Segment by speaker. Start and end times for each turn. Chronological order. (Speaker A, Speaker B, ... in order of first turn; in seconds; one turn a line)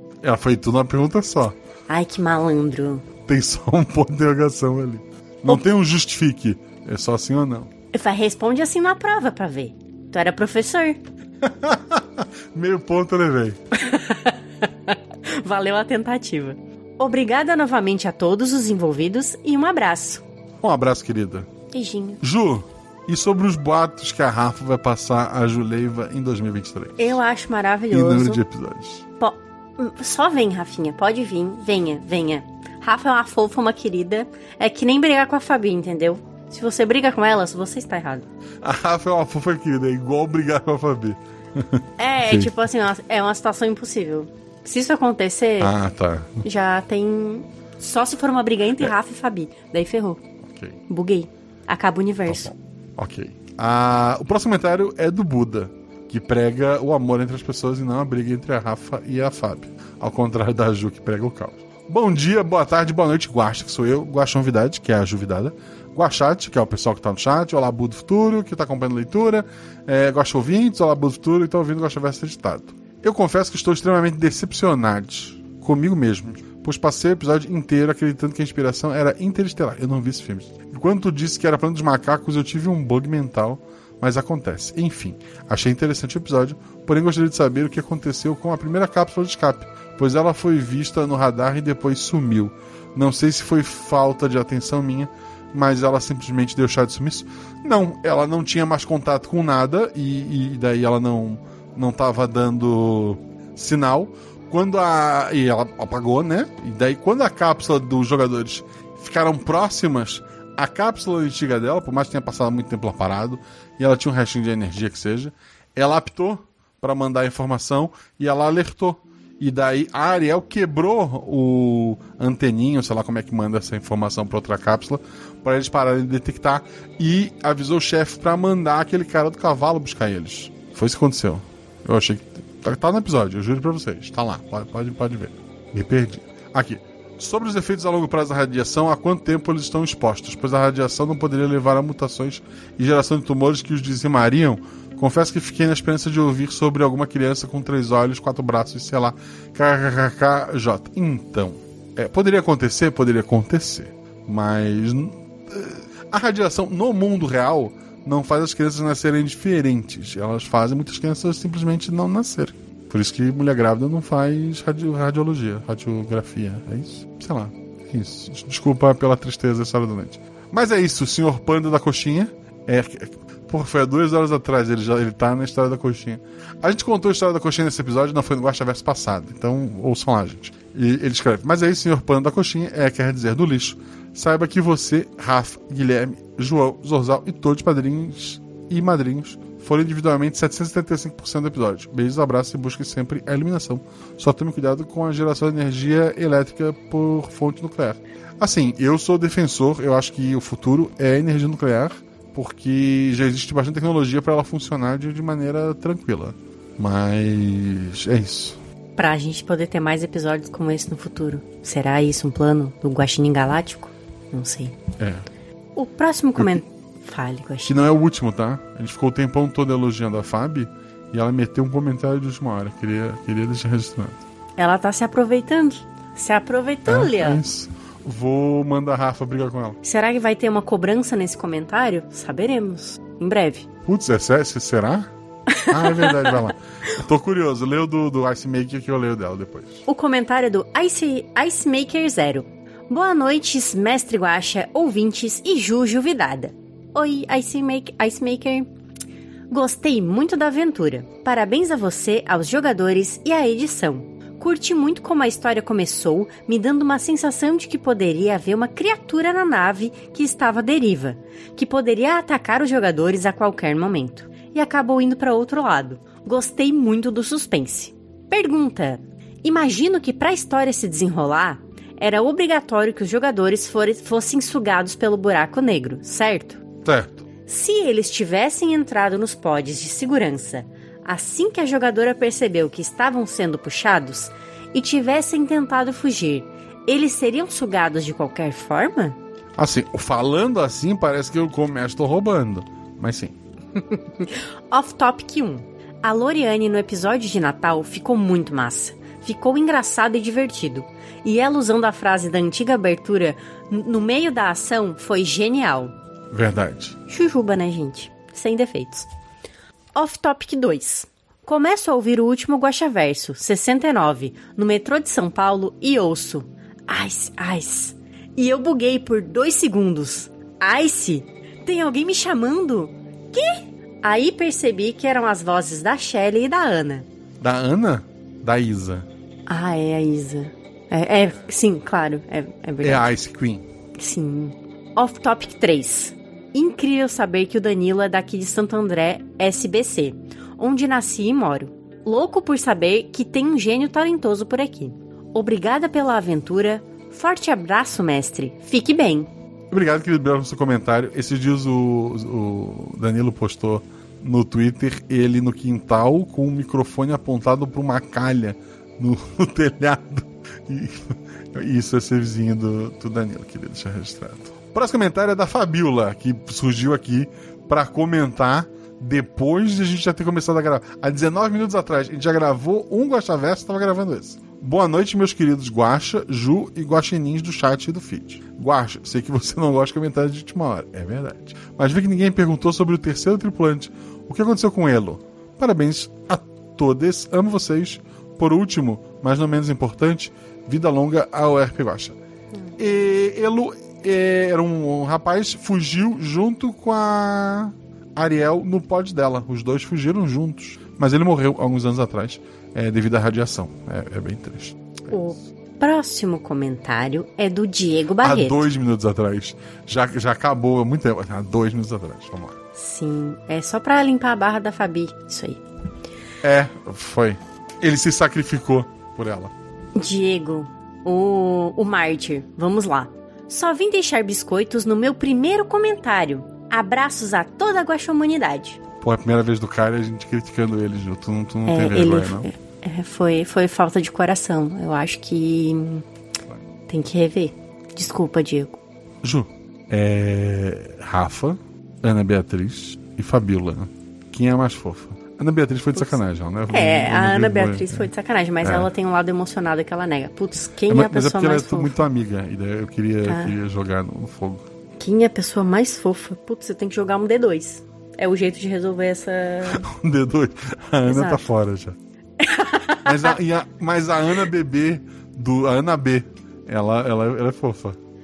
Speaker A: 0.2-1.6
Speaker B: 1.9-3.0
Speaker A: 3.3-7.7
Speaker B: 7.9-11.0
Speaker A: 11.4-13.6
Speaker B: 13.8-14.4
Speaker B: 14.9-20.2
Speaker A: 20.6-21.5
Speaker B: 21.7-22.2
Speaker A: 22.2-27.2
Speaker B: 27.0-28.4
Speaker A: 27.9-29.0
Speaker B: 29.2-38.2
Speaker A: 38.6-42.5
Speaker B: 42.0-45.7
Speaker A: 45.6-46.4
Speaker B: 46.4-50.2
Speaker A: 50.4-50.8
Speaker B: 50.9-52.5
Speaker A: 52.3-208.6
Speaker B: 208.9-214.7
Speaker A: 215.0-215.2
Speaker B: 215.7-217.7
Speaker A: 216.3-216.6
Speaker A: 217.6-224.2
Speaker B: 224.6-227.4
Speaker A: 226.8-229.8
Speaker B: 229.8-233.7
Speaker A: 233.8-235.1
Speaker B: 235.6-236.3
Speaker A: 235.7-239.8
Speaker B: 239.8-248.7
Speaker B: 249.5-276.6
Speaker A: 276.8-277.2
Speaker B: 277.5-289.2
Speaker A: 289.6-293.3
Speaker B: 293.9-305.9
Speaker A: 306.3-306.9
Speaker B: 307.1-309.1
Speaker B: 309.9-327.1
Speaker A: 327.4-329.1
Speaker B: 329.5-333.1
Speaker A: 332.8-333.7
Speaker B: 334.0-349.3
Speaker A: 349.7-392.2
Speaker A: 392.8-405.3
Speaker B: 405.1-408.6
Speaker A: 408.2-412.6
Speaker B: 412.8-415.6
Speaker A: 416.4-419.5
Speaker B: 419.9-428.8
Speaker A: 429.0-432.5
Speaker B: 431.7-436.0
Speaker B: 436.9-438.8
Speaker A: 439.2-448.1
Speaker B: 446.7-451.9
Speaker A: 448.6-448.9
Speaker A: 450.9-454.6
Speaker B: 453.2-453.5
Speaker B: 455.0-459.8
Speaker A: 459.6-461.9
Speaker B: 461.1-461.4
Speaker B: 462.4-463.3
Speaker A: 463.0-468.0